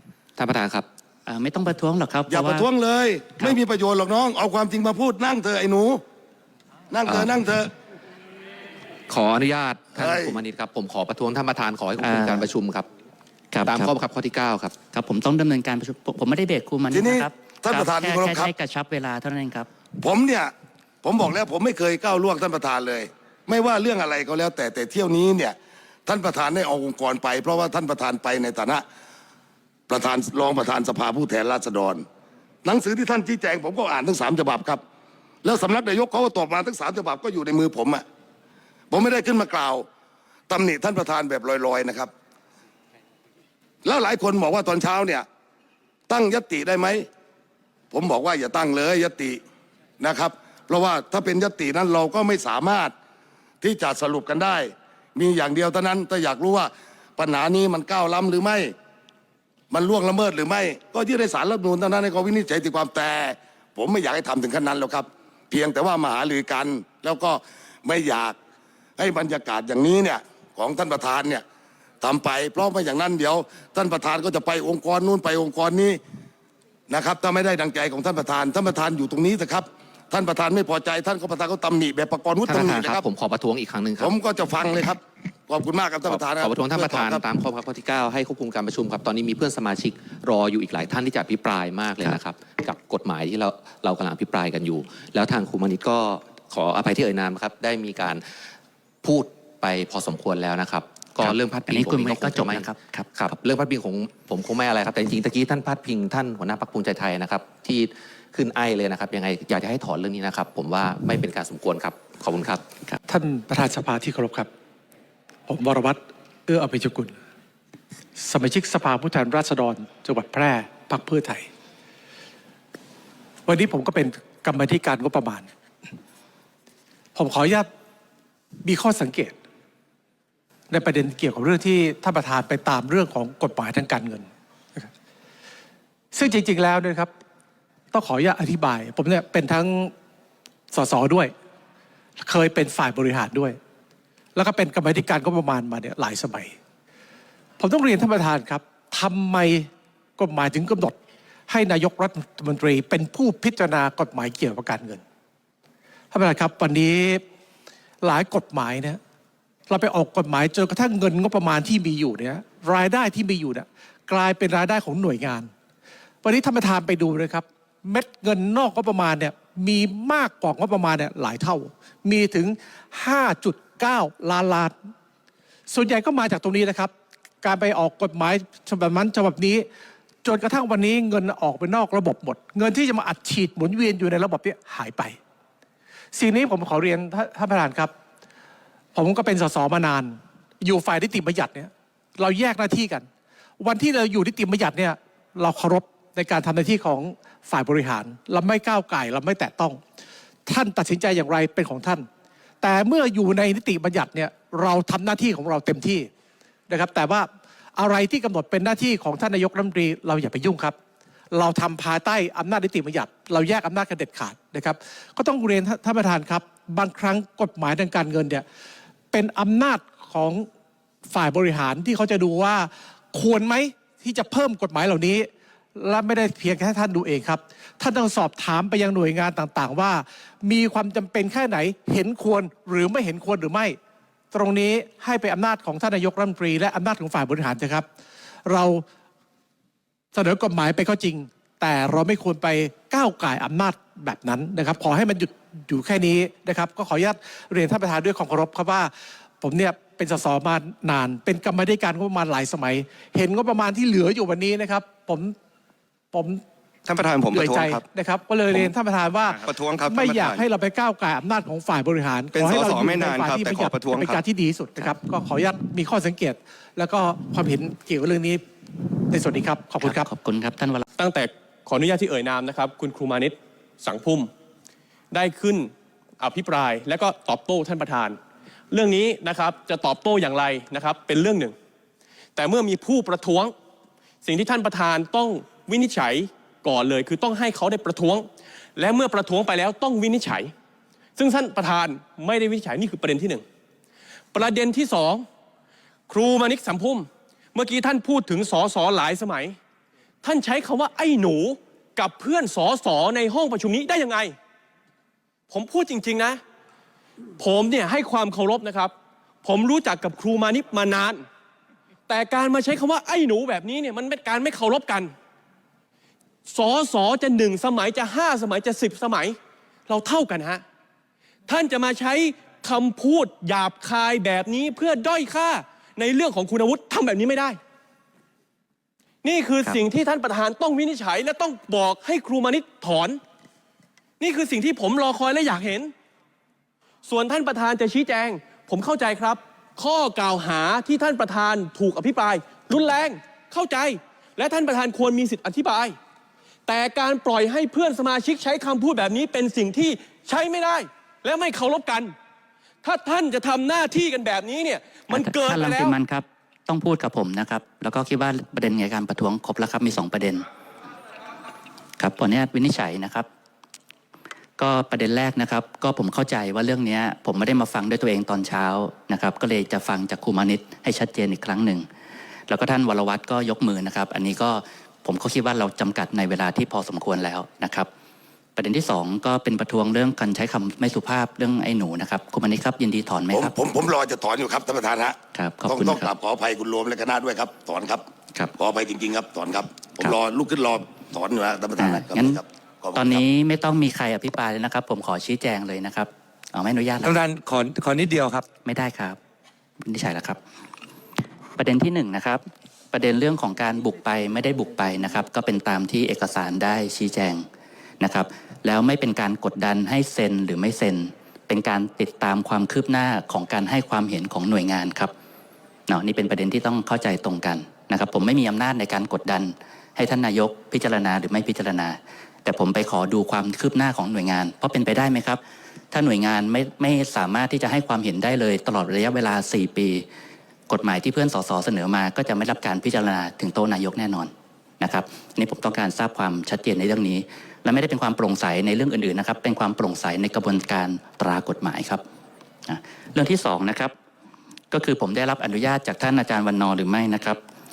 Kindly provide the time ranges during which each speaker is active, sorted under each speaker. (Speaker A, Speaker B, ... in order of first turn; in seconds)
Speaker A: 0.4-0.8, 9.1-12.9, 13.7-14.7, 82.5-84.1, 86.1-98.2, 99.0-112.6
Speaker B: 1.2-2.7, 12.0-12.5, 13.5-14.0, 14.9-19.7, 101.2-103.2, 269.8-270.9, 355.1-360.4, 362.0-363.3, 364.6-371.9, 372.5-377.9, 378.6-383.5, 385.3-386.1, 391.8-392.4, 392.9-397.2, 398.6-399.2, 399.8-400.4, 401.6-407.4, 408.0-415.1, 415.9-425.4, 425.9-430.1, 430.7-442.0, 442.7-443.9, 444.7-447.4
Speaker C: 2.3-6.0, 6.9-7.7, 9.9-10.4, 16.9-18.5, 20.0-28.8, 29.9-32.0, 32.6-34.8, 35.4-38.0, 38.9-39.9, 40.5-42.1, 43.8-45.2, 46.1-47.1, 47.9-49.4, 50.0-52.9, 53.6-58.7, 59.7-68.3, 69.0-71.4, 72.0-76.0, 76.9-83.0, 84.0-87.2, 383.3-385.1, 385.7-388.1, 388.6-393.2
Speaker D: 113.1-114.5, 115.5-117.2, 118.2-121.5, 123.5-125.5, 127.1-127.7, 128.6-129.3, 130.7-134.3, 136.1-137.1, 137.9-139.9, 140.7-141.3, 142.2-143.6, 144.3-146.5, 147.6-151.0, 151.5-155.0, 156.1-157.2, 158.0-159.0, 159.7-165.5, 166.2-174.8, 175.7-179.7, 180.2-185.2, 186.1-187.9, 188.9-193.1, 193.6-199.8, 200.4-202.1, 202.6-206.1, 206.7-210.8, 211.3-218.4, 219.1-220.5, 221.1-233.8, 234.3-237.9, 238.4-238.8, 240.1-255.3, 256.1-256.4, 257.3-268.4, 269.1-270.1
Speaker E: 256.9-257.8, 259.3-260.4, 262.3-264.2, 397.0-398.4
Speaker F: 271.0-274.3, 275.1-278.2, 278.7-281.5, 282.4-283.5, 284.2-290.5, 291.2-293.4, 294.3-295.2, 296.1-299.6, 300.2-304.3, 305.5-306.4, 307.4-308.9, 309.4-311.2, 312.1-315.1, 316.5-319.4, 319.9-320.6, 321.5-327.6, 329.2-333.2, 334.2-335.9, 337.1-345.9, 346.7-352.1, 352.8-356.0